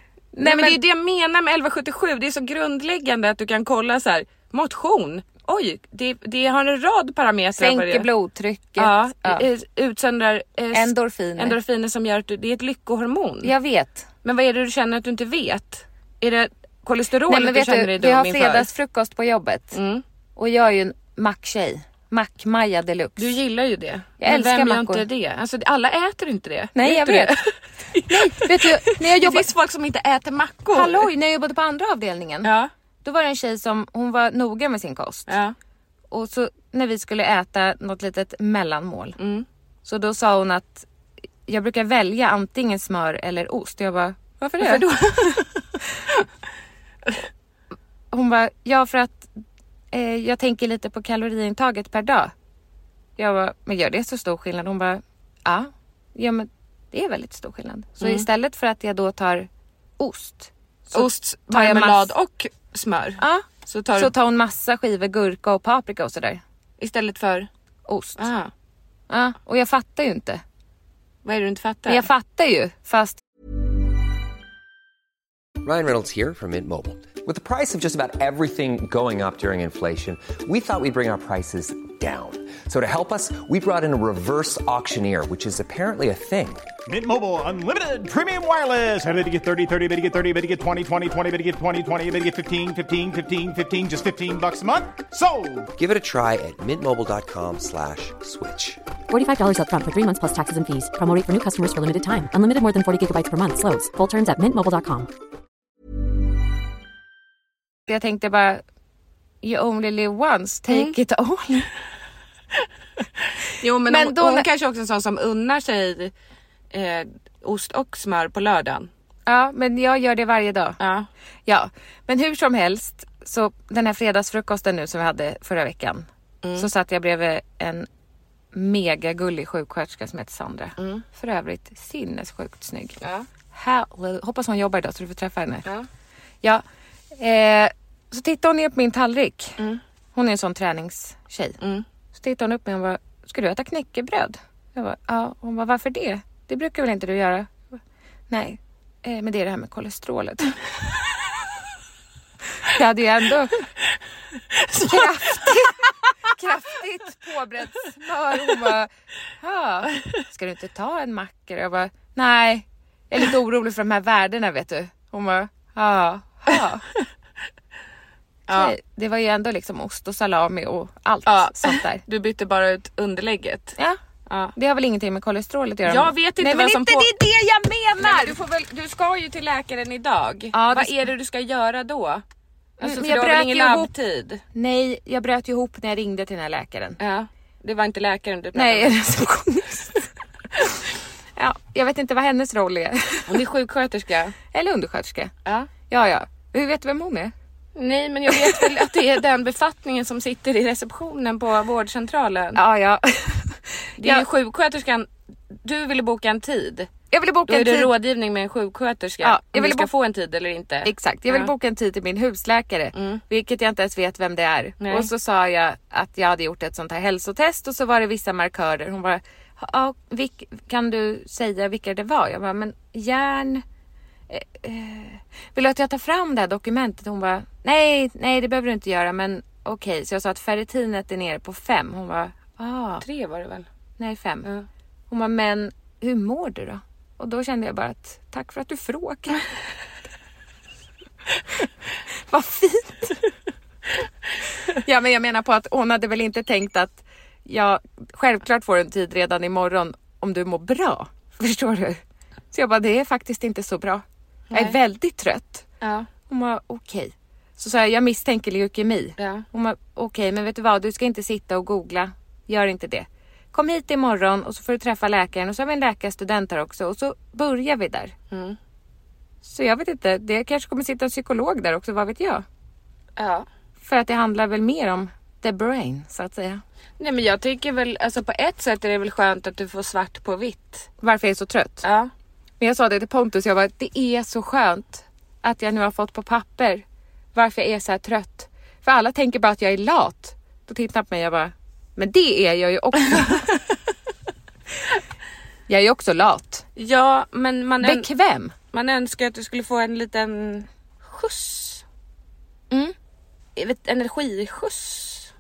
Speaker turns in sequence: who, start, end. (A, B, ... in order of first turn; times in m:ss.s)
0:00.3-0:00.8 A
0:00.4-0:08.1 B
0:07.6-0:09.5 A
0:08.8-0:13.5 B
0:10.7-0:11.6 A
0:13.4-0:14.1 A
0:14.2-0:18.7 B
0:17.3-0:19.8 A
0:19.7-0:20.0 B
0:20.4-0:23.4 A
0:23.2-0:31.1 B
0:24.2-0:25.0 A
0:26.7-0:27.4 A
0:28.1-0:29.5 A
0:30.7-0:32.5 A
0:32.4-0:32.7 B
0:33.0-0:35.4 A
0:35.3-0:35.5 B
0:36.1-0:39.2 A
0:39.2-0:39.4 B
0:39.8-0:40.9 A
0:41.4-0:44.9 A
0:44.5-0:45.6 B
0:48.1-0:49.3 A
0:49.9-0:52.3 A
0:53.2-1:02.1 A
0:58.0-0:58.3 B
1:00.9-1:04.1 B
1:03.2-1:06.4 A
1:06.8-1:07.5 B
1:07.9-1:08.3 A
1:08.2-1:08.5 B
1:09.1-1:10.4 A
1:11.2-1:12.1 B
1:11.9-1:13.2 A
1:15.6-1:26.6 C
1:26.8-1:35.7 D
1:35.8-1:38.8 C
1:39.1-1:45.1 E
1:47.9-1:48.6 A
1:49.4-1:51.7 A
1:50.7-1:51.0 B
1:53.4-1:56.1 B
1:53.8-1:54.5 A
1:56.7-1:58.9 B
1:59.2-2:00.8 A
2:00.8-2:01.1 B
2:01.4-2:07.9 A
2:06.4-2:06.7 B
2:08.5-2:13.0 A
2:10.8-2:11.0 B
2:13.0-2:13.2 B
2:13.5-2:15.6 A
2:16.4-2:19.6 A
2:20.1-2:21.6 A
2:22.1-2:27.5 A
2:28.3-2:30.6 A
2:32.6-2:33.7 A
2:34.6-2:35.0 B
2:34.8-2:46.8 A
2:48.5-2:48.7 B
2:48.5-2:52.0 A
2:51.2-2:53.8 B
2:54.3-2:54.5 B
2:54.5-2:58.4 A
2:55.8-2:57.1 B
2:58.0-3:02.2 B
3:00.5-3:01.1 A
3:02.8-3:03.9 A
3:02.8-3:04.4 B
3:04.5-3:07.0 A
3:07.0-3:09.0 B
3:08.5-3:10.8 A
3:11.4-3:13.4 A
3:13.3-3:14.4 B
3:14.5-3:15.3 A
3:15.9-3:17.3 A
3:17.8-3:22.6 B
3:18.3-3:18.9 A
3:22.5-3:24.2 A
3:24.0-3:26.9 B
3:27.1-3:27.9 A
3:27.5-3:31.5 B
3:29.2-3:29.9 A
3:30.8-3:43.6 A
3:32.9-3:33.2 B
3:34.8-3:35.1 B
3:44.3-3:53.0 A
3:53.0-3:53.6 B
3:54.0-3:54.5 A
3:55.1-3:59.4 A
4:02.1-4:03.2 A
4:04.7-4:12.0 A
4:12.5-4:15.7 A
4:14.5-4:14.8 B
4:15.8-4:16.1 B
4:16.3-4:28.1 A
4:19.2-4:19.4 B
4:28.3-4:28.6 B
4:29.4-4:32.4 A
4:33.2-4:33.4 B
4:33.8-4:36.6 A
4:37.0-4:40.9 B
4:41.0-4:41.8 A
4:41.8-4:42.1 B
4:42.6-4:53.6 A
4:55.7-4:56.6 A
4:56.8-4:58.1 B
4:57.8-4:58.5 A
4:58.7-5:01.8 B
5:02.7-5:02.9 A
5:03.6-5:05.3 B